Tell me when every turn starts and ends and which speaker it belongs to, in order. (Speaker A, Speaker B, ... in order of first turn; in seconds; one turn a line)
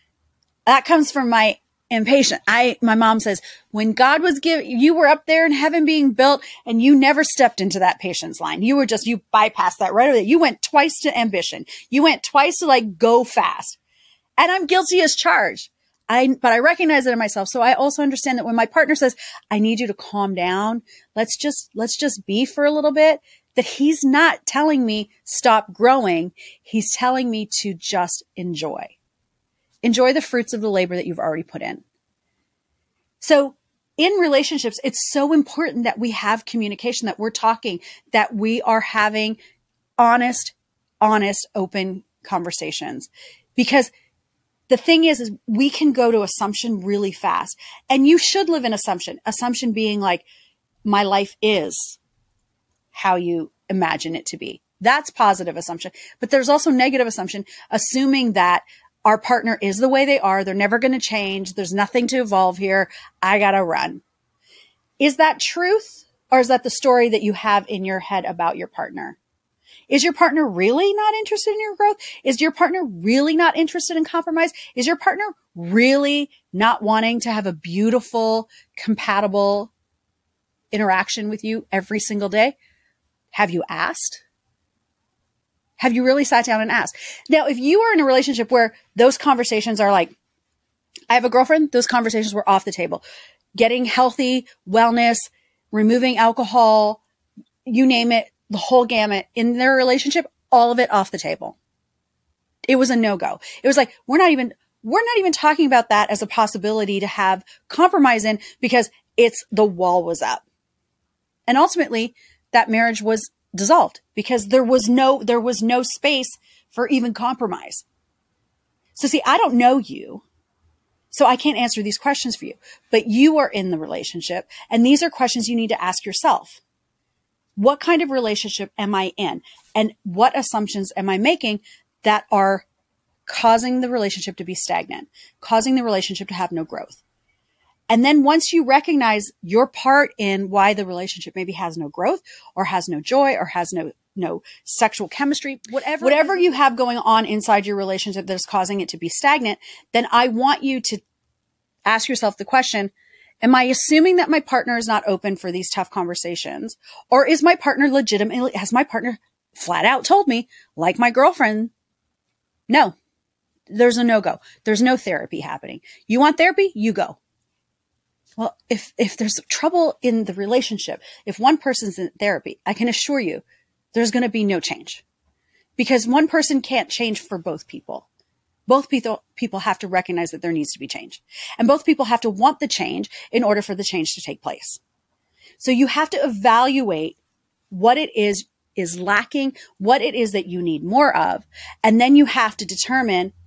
Speaker A: 0.7-13.8
Speaker A: 14.4-29.0
Speaker A: 29.8-31.8
Speaker A: 33.2-39.4
Speaker A: 40.0-43.9
Speaker A: 44.7-50.3
Speaker A: 50.9-52.0
Speaker A: 52.9-64.0
Speaker A: 65.0-69.2
Speaker A: 69.9-79.7
Speaker A: 80.7-82.6
Speaker A: 83.3-84.2
Speaker A: 85.8-90.2
Speaker A: 91.1-93.0
Speaker A: 93.5-97.0
Speaker A: 97.7-101.6
Speaker A: 102.7-110.4
Speaker A: 111.5-117.8
Speaker A: 119.0-120.2
Speaker A: 121.1-126.6
Speaker A: 127.6-132.7
Speaker A: 133.3-137.0
Speaker A: 137.9-151.0
Speaker A: 151.9-161.7
Speaker A: 162.7-162.9
Speaker A: 163.7-167.2
Speaker A: 168.4-175.0
Speaker A: 175.8-178.1
Speaker A: 178.7-184.8
Speaker A: 185.6-187.2
Speaker A: 187.7-193.3